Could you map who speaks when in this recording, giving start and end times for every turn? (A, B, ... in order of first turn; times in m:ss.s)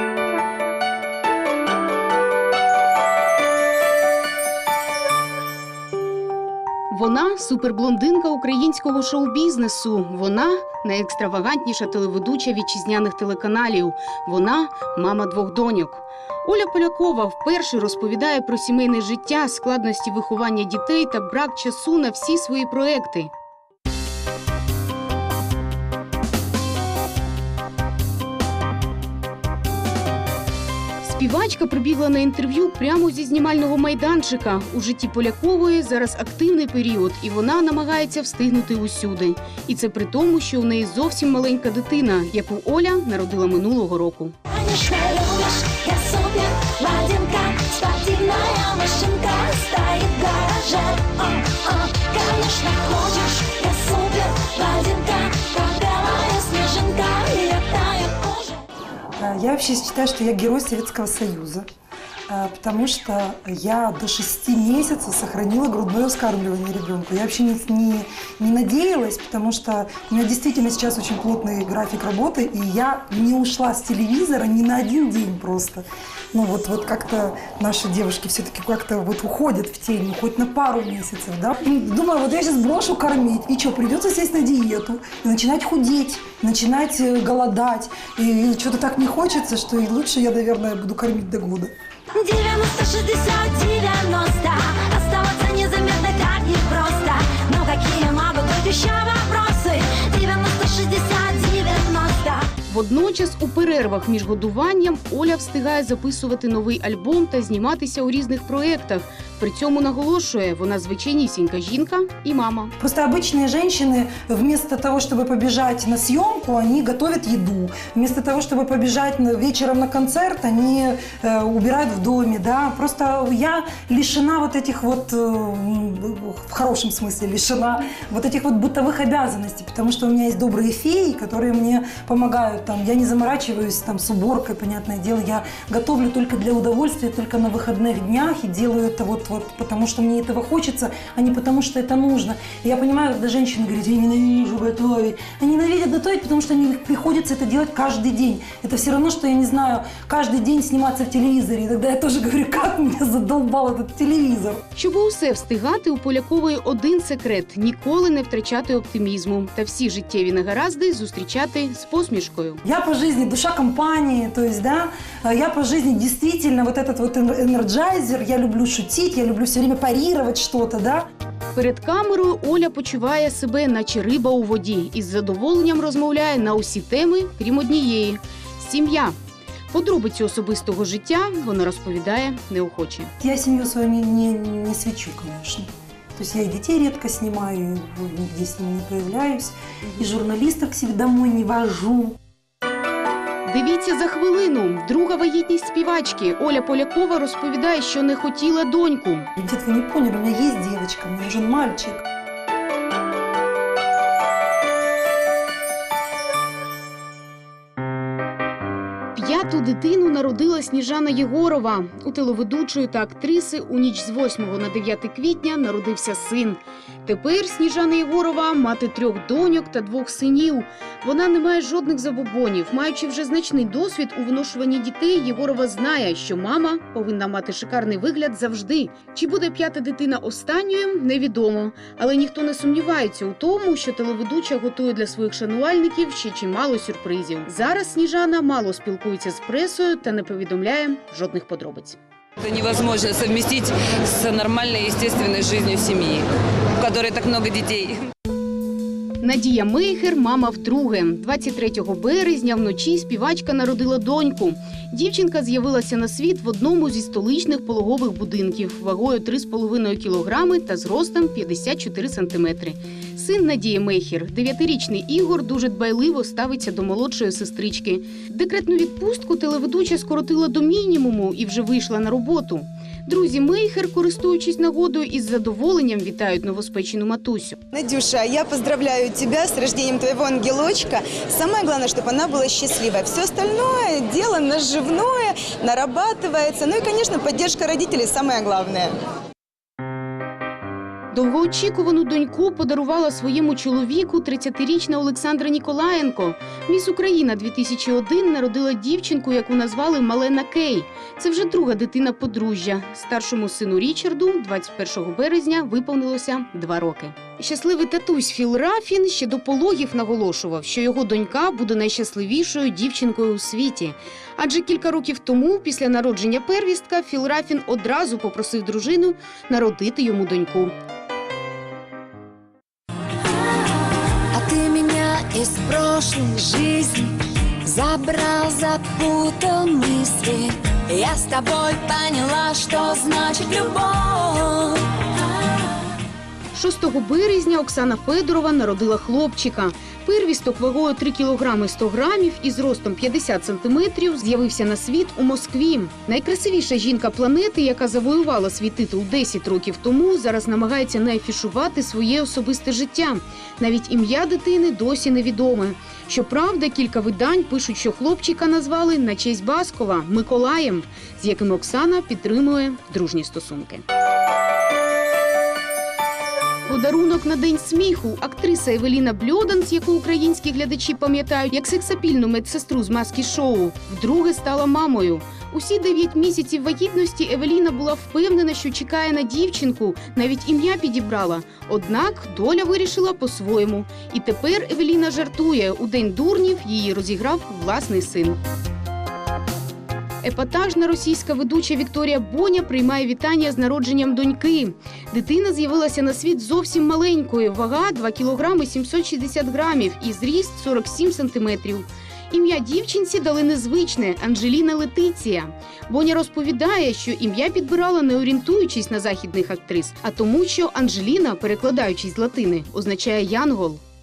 0:06.9-0:23.3 A
0:31.0-0:44.3 A
0:44.5-0:58.6 B
0:59.2-1:01.7 C
1:02.3-1:31.7 C
1:32.1-1:42.5 B
1:42.7-1:52.7 A
1:52.8-2:34.6 C
2:34.7-2:42.6 A
2:42.6-2:51.0 C
2:51.5-2:59.2 A
2:59.7-3:03.1 A
3:03.2-3:12.2 C
3:13.4-3:19.3 A
3:19.4-3:22.0 C
3:29.1-4:02.0 A
4:02.4-4:06.2 D
4:06.8-4:08.0 D
4:09.2-4:37.6 A
4:37.7-4:48.9 E
4:51.1-5:20.7 A
5:24.3-5:35.1 B
5:36.5-6:03.8 A
6:06.6-6:28.4 A
6:30.2-6:53.8 A